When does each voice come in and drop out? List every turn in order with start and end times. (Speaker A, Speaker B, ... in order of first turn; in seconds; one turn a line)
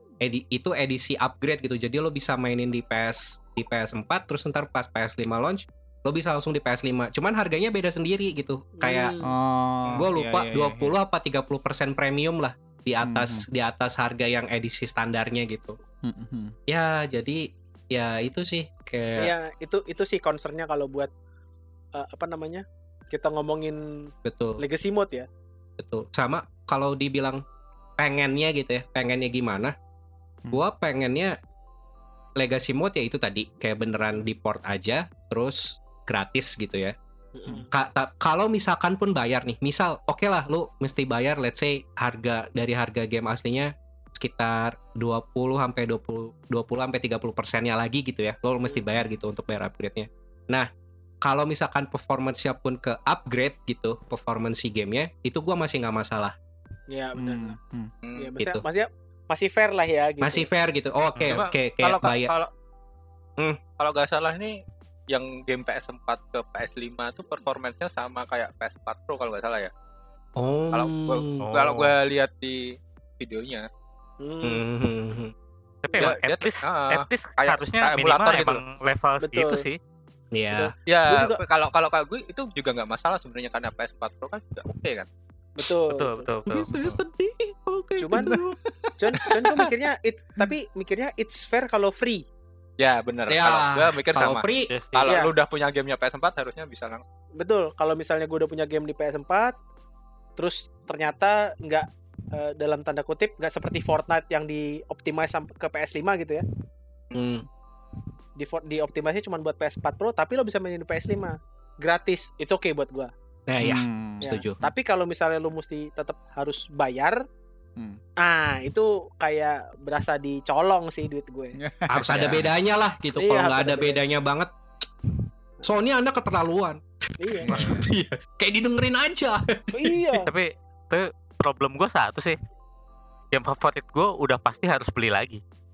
Speaker A: 0.2-9.1
Speaker B: 8.8-9.4
Speaker C: 9.2-10.9
Speaker A: 9.9-15.8
Speaker C: 13.0-13.4
Speaker C: 16.0-16.6
Speaker A: 16.7-19.3
Speaker B: 19.2-21.1
Speaker B: 21.9-25.3
Speaker A: 24.2-24.6
Speaker A: 25.8-27.4
Speaker A: 28.0-29.7
Speaker A: 30.5-31.4
Speaker A: 32.4-37.0
Speaker B: 37.3-37.7
Speaker A: 37.7-50.7
Speaker A: 51.2-56.3
Speaker B: 56.9-57.5
Speaker C: 57.1-57.9
Speaker D: 58.0-58.3
Speaker B: 58.1-60.5
Speaker A: 60.2-62.3
Speaker D: 61.2-62.5
Speaker D: 63.8-64.5
Speaker D: 65.1-69.7
Speaker A: 70.4-71.4
Speaker D: 70.7-72.7
Speaker E: 71.4-71.9
Speaker D: 73.2-73.7
Speaker B: 74.2-74.6
Speaker A: 74.4-75.3
Speaker E: 75.8-79.8
Speaker D: 76.0-78.6
Speaker B: 79.2-79.6
Speaker A: 80.3-80.7
Speaker B: 80.5-81.4
Speaker D: 80.9-85.1
Speaker B: 85.5-86.3
Speaker E: 85.9-86.7
Speaker A: 86.5-88.6
Speaker B: 88.0-88.4
Speaker C: 88.1-89.4
Speaker B: 89.0-92.3
Speaker D: 89.3-89.6
Speaker D: 92.8-97.0
Speaker A: 93.3-94.7
Speaker E: 94.6-95.1
Speaker B: 95.0-95.3
Speaker B: 97.4-99.5
Speaker B: 100.4-106.5
Speaker A: 107.1-107.5
Speaker B: 108.4-113.1
Speaker A: 113.5-114.6
Speaker C: 113.6-114.3
Speaker B: 114.2-117.2
Speaker B: 118.2-121.5
Speaker C: 121.6-122.5
Speaker A: 121.9-124.5
Speaker B: 123.2-124.0
Speaker A: 125.6-126.8
Speaker B: 127.2-127.6
Speaker A: 127.4-130.0
Speaker C: 127.4-127.9
Speaker B: 129.7-130.3
Speaker E: 130.3-132.4
Speaker E: 133.3-135.4